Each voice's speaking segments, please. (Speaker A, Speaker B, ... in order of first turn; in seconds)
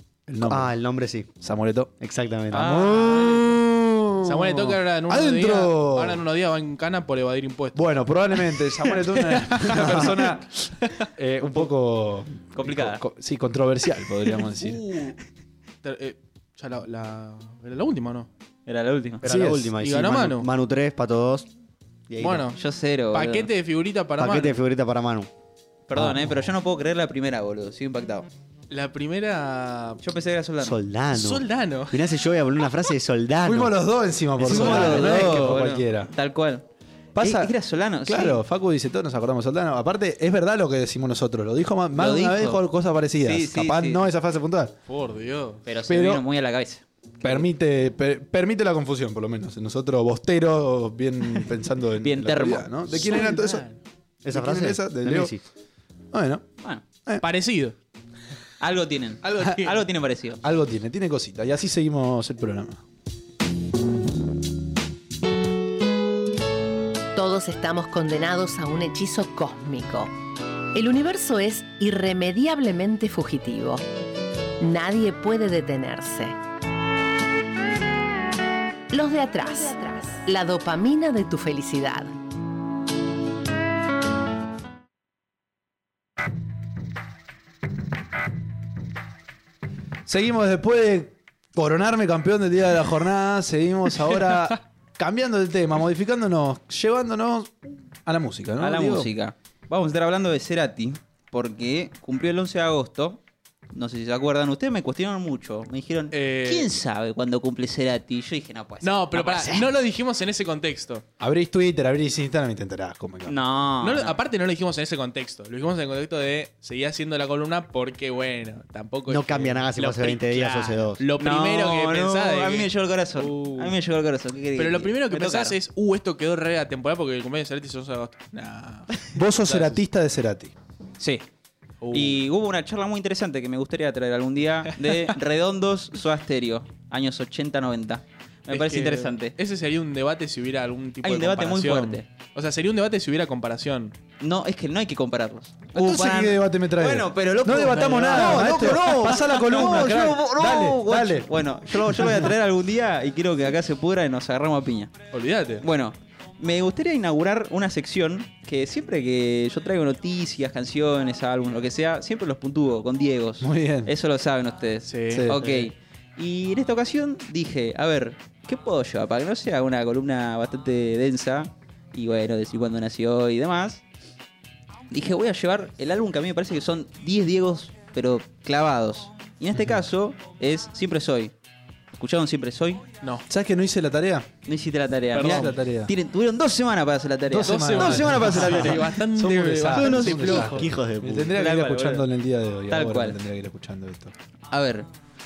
Speaker A: 0.3-0.7, 1.4-1.9, 2.5-6.2, 7.7-14.8, 19.2-19.7, 25.9-26.4, 33.4-36.1, 37.1-37.5, 38.0-44.7, 45.9-46.2, 47.2-53.6, 54.3-55.3, 56.1-56.5, 60.4-62.8, 90.0-99.1, 111.2-113.4, 129.1-130.5, 145.7-152.3, 163.4-163.9, 165.1-165.5, 179.5-179.8, 183.3-184.3, 185.2-185.9, 187.3-194.1
Speaker B: 0.4-1.3, 2.0-2.9, 19.2-21.5, 22.1-22.5, 24.2-25.3, 30.6-33.7, 34.5-35.0, 54.2-55.4, 119.1-121.0, 189.9-191.4
Speaker C: 2.5-3.6, 12.5-13.0, 18.6-19.2, 22.5-23.5, 25.9-28.3, 30.0-30.8, 34.4-36.6, 37.2-38.4, 42.0-42.6, 43.2-44.0, 45.6-47.5, 52.0-52.8, 58.6-60.4, 98.6-103.2, 103.7-109.7, 113.2-114.2, 121.2-125.5, 131.0-131.3, 131.9-139.3, 141.0-142.1, 144.2-154.9, 155.6-173.8, 174.9-181.3, 181.9-182.8, 184.4-188.9, 189.7-190.6, 191.3-192.1, 192.7-193.2, 194.5-194.9
Speaker D: 4.2-11.1, 14.4-15.2, 15.8-18.3, 19.8-20.5, 22.2-22.6, 23.1-24.6, 28.7-30.0, 31.1-32.1, 34.5-35.5, 44.9-45.6, 52.9-53.8, 57.2-57.8, 59.2-59.8, 106.1-106.7, 108.8-111.0, 113.8-123.8, 124.5-129.8, 131.8-132.2, 134.8-135.1, 138.5-144.0, 147.6-149.9, 155.1-155.6, 164.8-165.5, 185.1-185.5, 187.4-190.7
Speaker E: 67.1-70.1, 70.7-73.8, 74.6-76.4, 78.9-82.1